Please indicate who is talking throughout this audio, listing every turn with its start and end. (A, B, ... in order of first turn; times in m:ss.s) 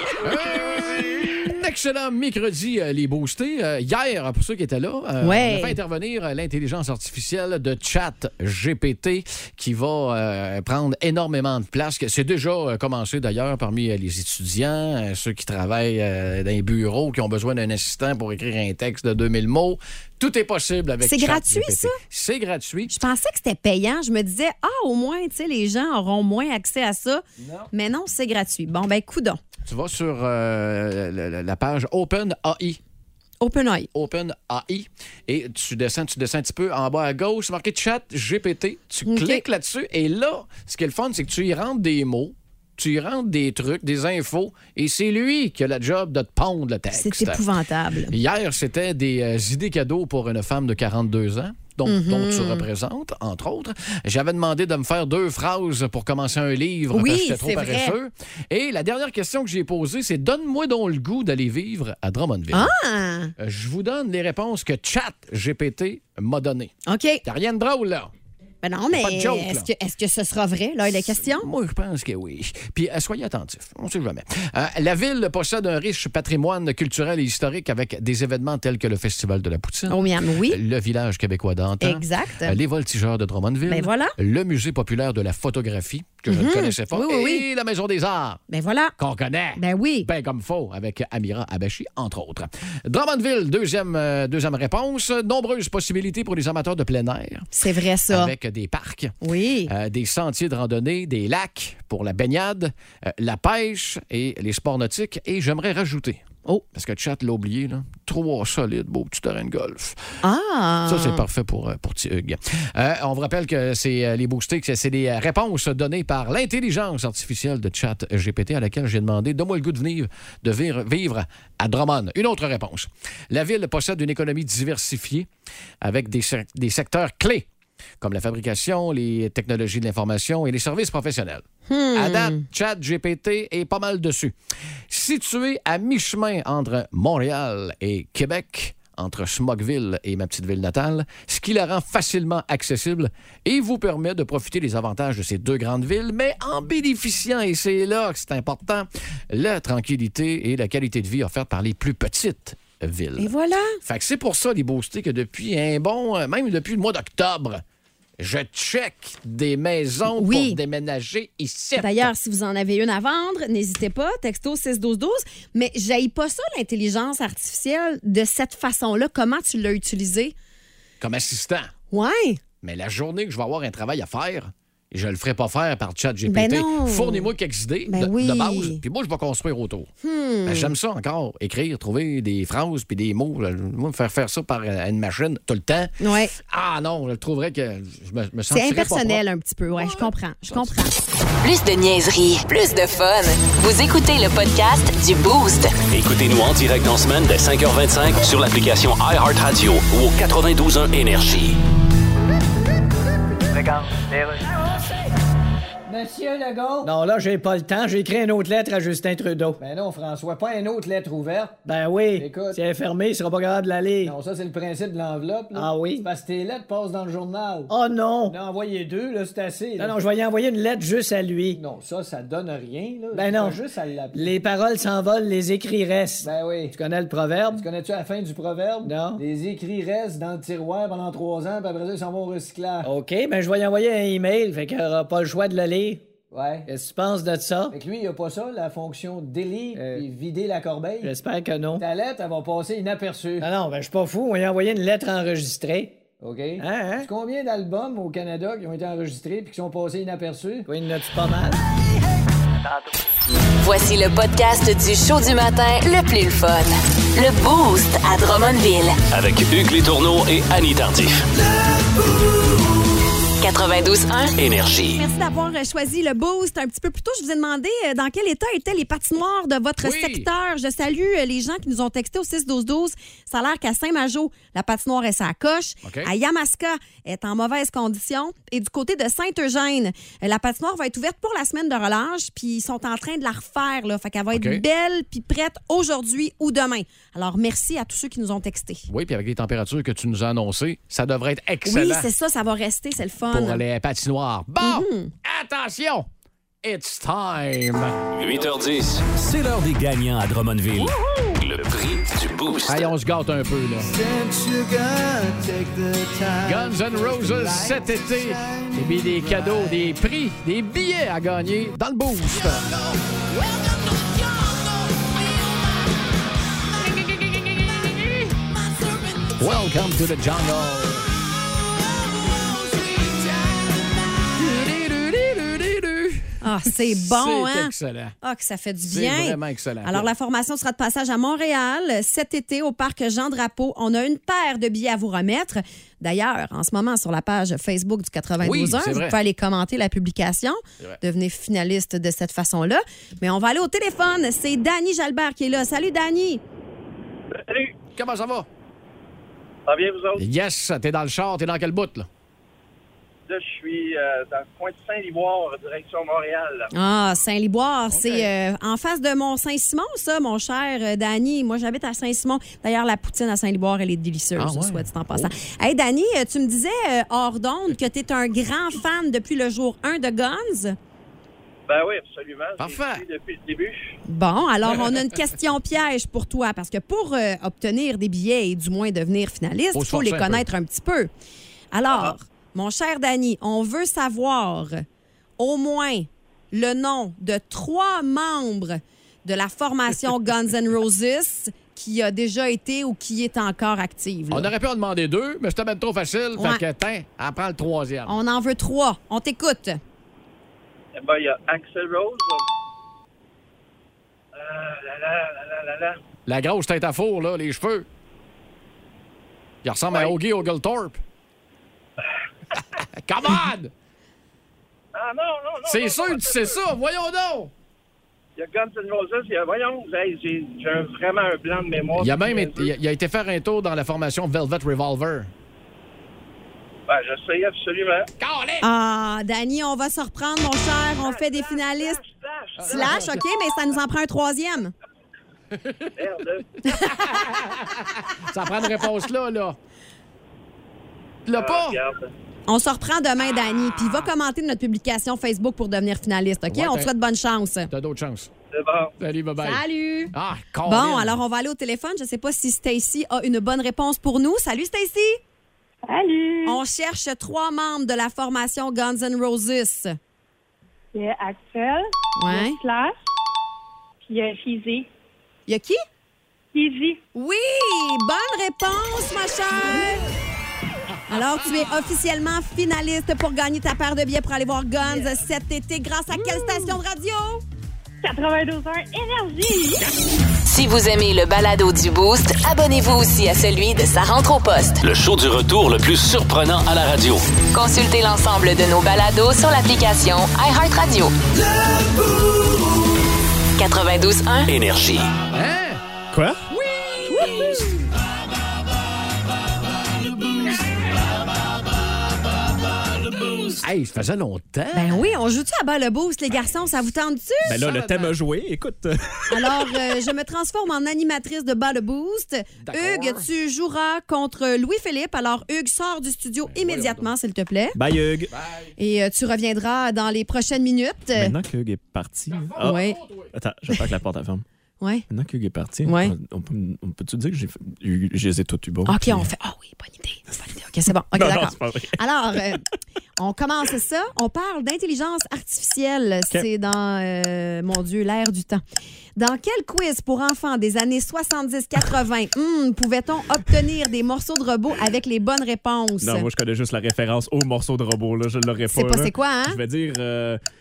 0:00.2-0:23.0 A
0:05.2-0:05.8 B
0:21.0-0:22.0 B
0:22.9-0:29.4 B
0:29.7-0:32.8 A
0:33.4-0:33.9 B
0:33.9-0:47.4 A
0:39.1-0:39.4 B
0:46.9-0:48.1 B
0:48.1-1:02.7 A
0:51.9-0:52.7 B
0:56.9-0:58.0 B
1:02.5-1:03.3 B
1:03.4-1:06.7 A
1:06.9-1:07.2 B
1:07.2-1:08.1 A
1:08.6-1:11.5 B
1:08.9-1:09.7 A
1:10.9-1:20.0 A
1:19.9-1:20.6 B
1:20.5-1:28.4 A
1:21.8-1:22.6 B
1:23.7-1:24.2 B
1:26.3-1:27.4 B
1:28.5-1:29.0 B
1:29.0-1:37.5 A
1:29.6-1:30.1 B
1:37.5-1:38.3 B
1:38.1-1:39.2 A
1:39.2-1:39.7 B
1:39.7-1:50.0 A
1:50.2-1:51.2 B
1:50.9-2:05.3 A
2:05.8-2:07.5 A
2:08.0-2:14.4 A
2:11.7-2:12.4 B
2:14.9-2:33.3 A
2:33.2-2:33.8 B
2:33.8-2:37.6 A
2:38.2-2:42.1 A
2:40.1-2:40.6 B
2:41.8-2:50.3 B
2:51.0-2:51.7 A
2:51.9-2:52.4 B
2:52.6-2:59.9 A
2:56.3-2:57.3 B
2:57.9-2:58.8 B
3:00.0-3:00.7 B
3:00.5-3:09.2 A
3:06.0-3:06.3 B
3:08.5-3:10.9 B
3:09.8-3:10.8 A
3:11.4-3:15.7 C
3:15.9-3:21.6 D
3:23.5-3:24.7 E
3:25.9-3:27.0 E
3:26.8-3:29.6 F
3:29.6-3:32.6 E
3:31.6-3:34.2 F
3:34.0-3:40.2 E
3:35.5-3:36.1 F
3:37.7-3:38.4 F
3:39.8-3:41.6 F
3:41.5-3:44.3 E
3:43.1-3:47.7 F
3:46.2-3:46.8 E
3:47.4-3:53.0 E
3:48.8-3:49.2 F
3:52.8-3:56.0 F
3:56.3-3:56.7 E
3:56.7-3:57.8 F
3:57.7-4:01.2 E
3:59.7-4:00.1 F
4:01.0-4:01.8 F
4:01.7-4:03.5 E
4:03.4-4:05.9 F
4:06.2-4:10.7 E
4:06.6-4:07.1 F
4:10.7-4:11.6 F
4:12.6-4:12.9 E
4:13.6-4:19.0 C
4:19.1-4:21.2 D
4:23.4-4:24.3 C
4:24.4-4:25.0 D
4:25.0-4:48.9 B
4:29.8-4:30.3 A
4:35.8-4:36.1 A
4:44.3-4:44.6 A
4:48.9-4:52.1 A
4:51.6-4:53.6 B
4:53.3-4:56.1 A
4:54.6-4:55.1 B
4:56.6-4:58.0 A
4:58.2-5:02.9 D
5:02.7-5:04.0 A
5:04.2-5:06.1 E
5:06.4-5:12.8 A
5:19.2-5:21.1 A
5:22.3-5:28.2 A
5:26.4-5:46.4 B
5:28.8-5:30.1 A
5:38.4-5:39.2 A
5:47.3-5:47.8 G
5:48.0-5:48.5 A
5:49.7-5:50.2 G
5:50.2-5:52.1 A
5:53.3-5:56.7 G
5:56.7-6:10.8 B
5:57.9-5:58.3 A
6:04.4-6:05.3 A
6:11.7-6:14.0 G
6:12.6-6:13.0 A
6:14.1-6:21.1 B
6:19.7-6:20.5 A
6:21.7-6:24.8 B
6:25.4-6:34.5 B
6:34.3-6:38.2 A
6:36.4-6:36.6 B
6:38.1-6:39.8 B
6:41.0-6:42.4 G
6:44.3-6:46.0 G
6:46.3-6:47.9 A
6:49.6-6:51.0 A
6:52.8-6:53.7 A
6:54.9-6:56.6 G
6:55.6-6:57.5 A
6:58.4-7:02.7 G
7:02.0-7:05.3 A
7:06.9-7:08.1 G
7:08.2-7:08.7 A
7:08.6-7:12.0 B
7:11.0-7:13.2 G
7:12.6-7:13.2 A
7:12.7-7:14.7 B
7:15.5-7:15.9 A
7:16.0-7:16.5 G
7:16.6-7:19.6 A
7:16.7-7:16.9 B
7:21.3-7:21.8 A
7:21.3-7:22.1 G
7:22.5-7:27.7 B
7:26.5-7:26.9 A
7:27.7-7:28.3 A
7:28.5-7:28.9 G
7:29.0-7:31.2 A
7:29.4-7:30.1 B
7:30.6-7:35.2 B
7:35.8-7:36.6 H
7:36.4-7:40.0 B
7:40.9-7:43.0 H
7:42.2-7:42.6 B
7:44.0-7:44.9 H
7:45.5-7:45.8 B
7:46.5-7:47.0 H
7:47.2-7:50.1 B
7:51.1-7:57.4 B
7:58.0-7:59.8 H
8:00.5-8:04.8 C
8:04.8-8:07.2 D
8:07.5-8:11.1 C
8:13.6-8:14.5 C
8:14.5-8:15.1 D
8:15.3-8:15.8 A
8:16.1-8:16.4 I
8:16.7-8:17.6 A
8:17.2-8:17.5 B
8:23.6-8:25.0 A
8:24.7-8:27.6 B
8:27.4-8:29.5 I
8:27.6-8:28.1 A
8:29.3-8:37.8 B
8:32.6-8:33.3 A
8:36.5-8:37.1 A
8:37.8-8:38.3 I
8:38.3-8:38.7 A
8:38.8-8:41.3 B
8:41.2-8:42.8 I
8:42.3-8:43.3 A
8:42.6-8:43.0 B
8:43.3-8:44.4 I
8:45.1-8:49.3 I
8:45.8-8:46.1 B
8:48.9-8:52.6 B
8:51.1-8:52.0 I
8:53.2-8:58.6 B
8:59.2-9:06.3 B
9:06.0-9:10.4 I
9:08.7-9:09.6 B